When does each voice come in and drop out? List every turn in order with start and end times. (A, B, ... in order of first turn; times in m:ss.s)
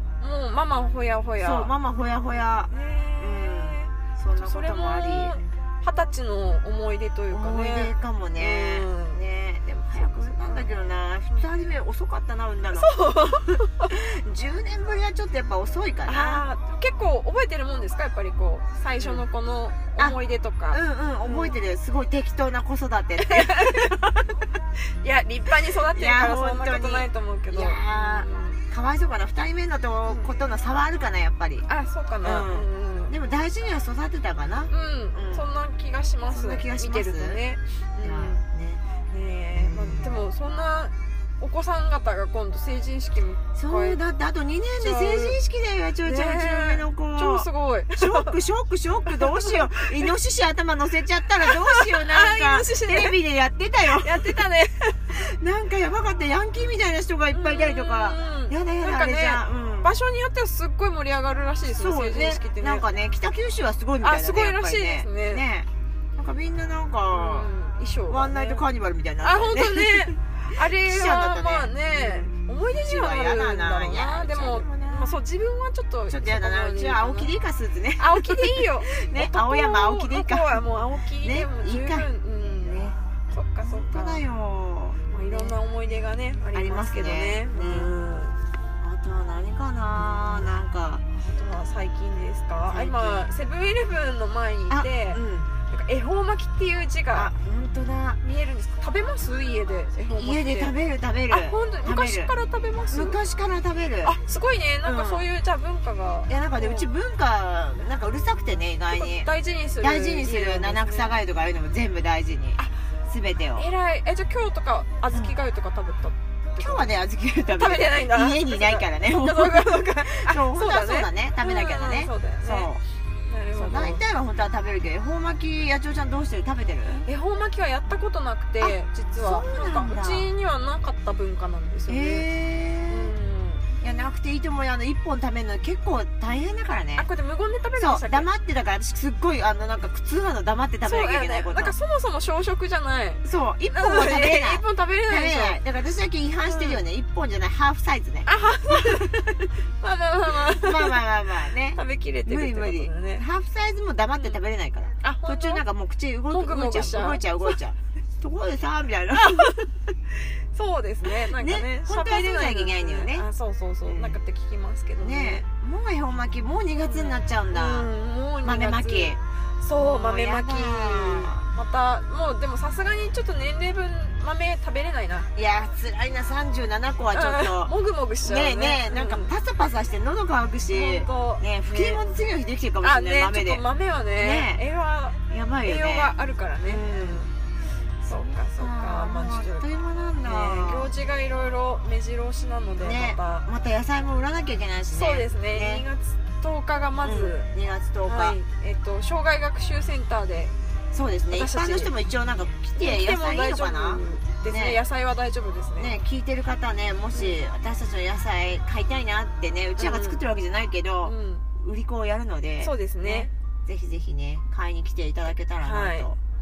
0:00.2-0:01.7 A
0:01.4-0:05.4 B
0:02.7-0:09.2 A
0:07.3-0:16.4 B
0:09.9-0:10.7 A
0:12.7-0:13.9 A
0:16.0-0:21.6 A
0:19.0-0:19.2 B
0:20.7-0:24.3 B
0:23.2-0:24.0 A
0:25.0-0:28.6 A
0:25.7-0:31.7 B
0:31.6-0:33.1 A
0:32.2-0:35.5 B
0:34.7-0:38.4 A
0:36.3-0:37.4 B
0:38.0-0:38.8 B
0:39.1-0:44.0 A
0:39.5-0:40.2 B
0:43.5-0:54.4 B
0:44.8-0:45.4 A
0:46.0-0:48.4 A
0:49.1-0:49.9 A
0:51.5-0:53.2 A
0:53.9-0:55.1 A
0:55.1-0:59.9 B
0:57.3-1:02.9 A
1:01.6-1:07.5 B
1:04.0-1:05.4 A
1:07.1-1:08.6 A
1:08.1-1:15.2 B
1:09.2-1:17.3 A
1:16.1-1:20.7 B
1:18.0-1:24.2 A
1:21.2-1:23.0 B
1:23.6-1:25.6 B
1:25.1-1:28.4 A
1:26.5-1:28.0 B
1:28.8-1:31.0 B
1:30.0-1:30.5 A
1:31.1-1:37.3 A
1:32.6-1:33.3 B
1:34.7-1:35.5 B
1:37.1-1:38.2 B
1:38.2-1:40.7 A
1:40.1-1:42.3 B
1:41.3-1:43.2 A
1:42.9-1:44.2 B
1:44.0-1:46.9 A
1:44.8-1:45.3 B
1:46.3-1:53.7 B
1:48.9-1:51.1 A
1:53.6-1:56.9 A
1:56.5-2:02.8 B
1:57.5-2:02.7 A
2:03.3-2:04.0 A
2:03.5-2:07.1 B
2:07.0-2:12.3 A
2:08.6-2:10.3 B
2:11.9-2:13.1 B
2:12.9-2:13.6 A
2:13.8-2:17.1 B
2:17.0-2:18.3 A
2:17.8-2:21.7 B
2:20.8-2:25.6 A
2:23.2-2:29.3 B
2:26.4-2:26.8 A
2:28.2-2:29.3 A
2:29.8-2:31.0 A
2:30.3-2:39.6 B
2:31.7-2:33.2 A
2:35.0-2:35.6 A
2:36.3-2:37.6 A
2:39.2-2:39.6 A
2:40.3-2:45.4 A
2:41.0-2:43.3 B
2:43.9-2:44.2 B
2:45.0-2:47.9 B
2:46.8-2:55.3 A
2:48.4-2:49.2 B
2:49.7-2:51.4 B
2:55.3-3:03.6 B
2:57.1-2:59.3 A
3:00.7-3:02.0 A
3:02.8-3:07.3 A
3:04.2-3:04.6 B
3:05.3-3:07.2 B
3:08.0-3:09.7 A
3:08.3-3:10.9 B
3:10.2-3:13.4 A
3:12.8-3:15.9 B
3:14.9-3:17.5 A
3:17.0-3:18.4 B
3:18.0-3:20.5 A
3:20.9-3:24.8 B
3:21.3-3:21.9 A
3:22.8-3:25.9 A
3:25.8-3:36.2 B
3:29.8-3:30.2 A
3:31.0-3:31.4 A
3:32.6-3:33.3 A
3:35.6-3:36.1 A